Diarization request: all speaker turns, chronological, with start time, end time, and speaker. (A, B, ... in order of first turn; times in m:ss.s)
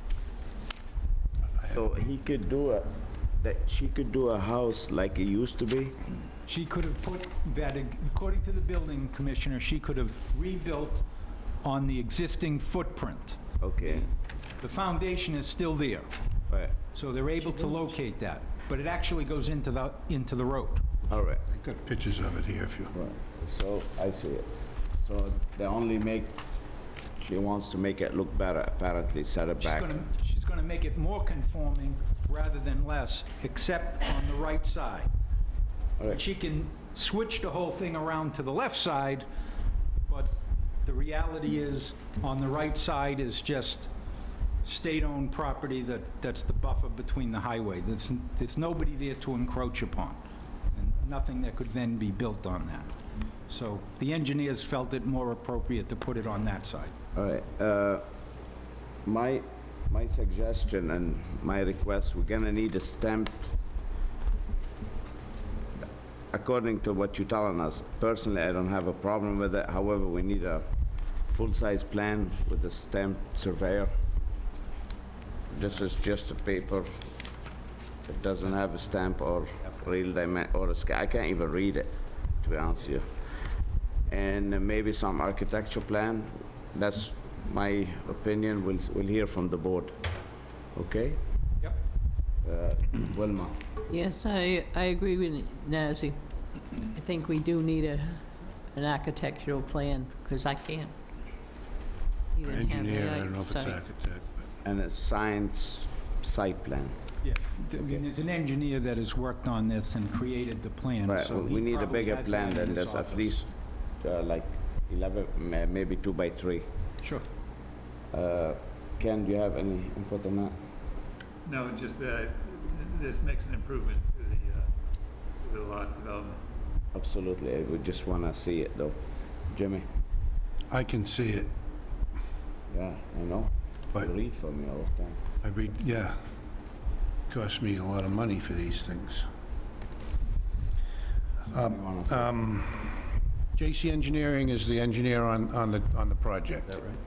0:01.7-0:06.0 A
0:06.4-0:11.0 B
0:11.6-0:16.1 B
0:13.6-0:14.1 A
0:16.9-0:20.8 B
0:21.1-0:21.4 A
0:21.5-0:22.9 C
0:22.9-0:26.4 A
0:27.2-0:30.0 A
0:29.6-0:35.1 B
0:36.0-0:39.2 B
0:40.1-0:43.9 B
0:44.6-0:50.2 B
0:50.7-0:52.9 B
0:53.5-0:56.9 B
0:57.1-0:58.0 A
0:59.0-1:03.5 A
1:06.3-1:10.6 A
1:11.3-1:13.9 A
1:15.5-1:17.1 A
1:18.0-1:23.2 A
1:24.1-1:30.0 A
1:30.7-1:31.2 A
1:32.4-1:33.6 A
1:33.9-1:36.2 D
1:36.9-1:40.9 D
1:42.3-1:43.8 D
1:42.4-1:44.4 C
1:44.6-1:47.0 A
1:47.2-1:53.5 B
1:47.7-1:48.0 A
1:51.0-1:56.7 A
1:58.1-2:00.6 A
2:01.4-2:04.7 E
2:05.4-2:06.4 E
2:06.9-2:09.0 A
2:09.5-2:09.8 A
2:10.7-2:11.5 C
2:12.7-2:15.2 A
2:15.4-2:16.2 C
2:17.3-2:19.3 C
2:21.5-2:26.9 C
2:21.6-2:22.2 A